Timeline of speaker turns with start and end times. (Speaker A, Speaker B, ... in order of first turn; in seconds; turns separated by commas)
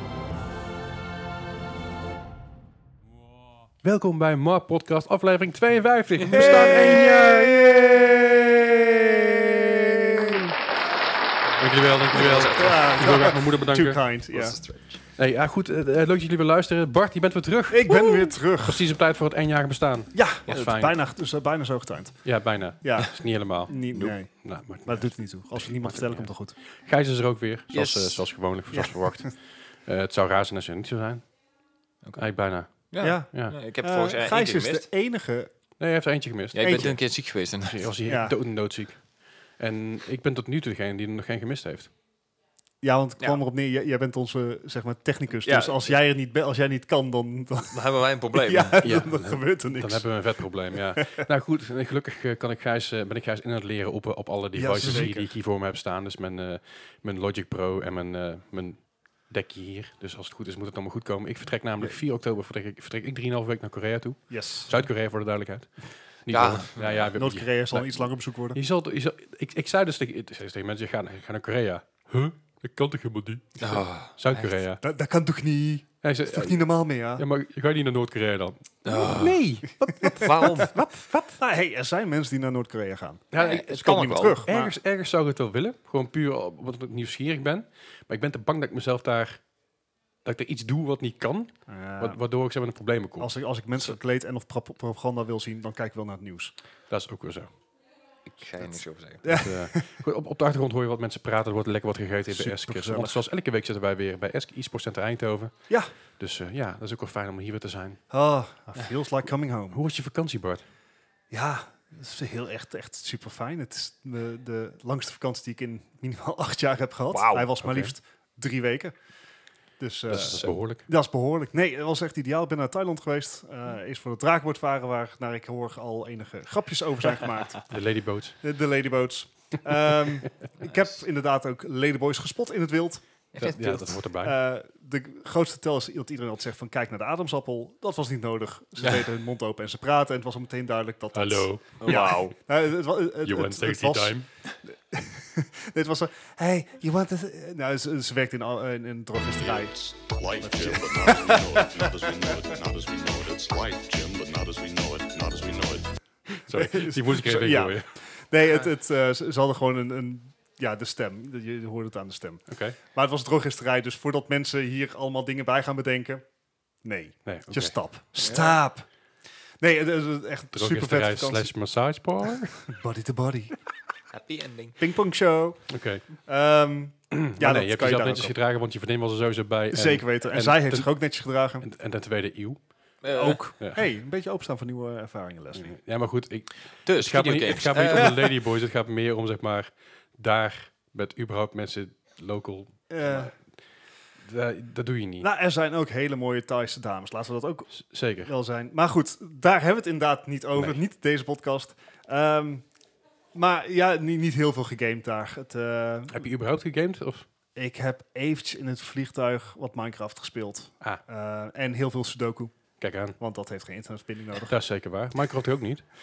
Speaker A: 3.8-7.9, Speaker B: 6.3-10.4, Speaker A: 11.6-14.0, Speaker C: 12.1-12.9, Speaker B: 12.1-14.6, Speaker C: 14.3-15.0, Speaker A: 15.1-20.9, Speaker B: 17.7-18.9, Speaker B: 20.1-26.6, Speaker A: 22.2-31.4, Speaker C: 27.7-28.3, Speaker B: 28.7-29.3, Speaker C: 32.0-34.9, Speaker A: 32.2-33.6, Speaker B: 33.0-35.5, Speaker A: 35.8-41.9, Speaker C: 36.5-37.9, Speaker B: 36.6-37.0, Speaker B: 38.0-38.4, Speaker B: 42.8-51.3, Speaker C: 45.4-46.0, Speaker C: 47.7-48.8, Speaker A: 48.8-74.8, Speaker B: 54.5-55.4, Speaker B: 64.3-64.8, Speaker C: 66.3-67.1, Speaker B: 67.2-68.6, Speaker C: 73.6-74.5, Speaker B: 74.8-77.2, Speaker A: 76.0-81.4, Speaker C: 78.8-79.4, Speaker B: 79.8-80.5, Speaker C: 80.2-80.8, Speaker B: 81.4-84.8, Speaker A: 83.3-89.5, Speaker C: 83.3-84.4, Speaker A: 90.2-93.3, Speaker B: 91.7-92.2, Speaker B: 93.2-96.5, Speaker A: 96.9-97.5, Speaker C: 98.2-99.3, Speaker B: 99.2-100.0, Speaker A: 99.2-108.0, Speaker B: 102.3-103.2, Speaker B: 105.7-105.9, Speaker B: 108.1-109.8, Speaker A: 109.7-110.7, Speaker B: 111.3-119.0, Speaker C: 117.1-117.5, Speaker A: 117.6-117.9, Speaker B: 119.8-127.8, Speaker A: 120.1-120.8, Speaker A: 127.7-128.4, Speaker B: 128.4-133.0, Speaker C: 130.6-130.9, Speaker C: 133.3-134.0, Speaker A: 133.4-134.4, Speaker B: 134.2-151.9, Speaker C: 138.8-139.1, Speaker A: 141.1-142.3, Speaker C: 141.8-142.3, Speaker A: 143.2-144.4, Speaker D: 149.3-155.9, Speaker A: 156.4-157.9, Speaker B: 156.5-166.3, Speaker A: 162.5-162.8, Speaker B: 166.8-168.9, Speaker A: 167.2-167.8, Speaker C: 168.2-168.6, Speaker B: 169.6-171.5, Speaker A: 170.5-172.8, Speaker B: 172.7-173.6, Speaker C: 174.1-174.8, Speaker B: 174.8-178.3, Speaker A: 175.7-176.1, Speaker A: 177.1-183.0, Speaker B: 179.7-181.6, Speaker C: 183.0-183.4, Speaker B: 183.1-185.8, Speaker A: 183.6-183.8, Speaker A: 185.6-193.4, Speaker C: 186.8-188.2, Speaker B: 192.9-193.3, Speaker A: 194.2-195.3, Speaker B: 195.2-202.7, Speaker A: 197.7-198.3, Speaker B: 203.3-206.2, Speaker A: 206.1-207.3, Speaker B: 207.6-214.6, Speaker A: 212.8-213.2, Speaker A: 214.4-215.9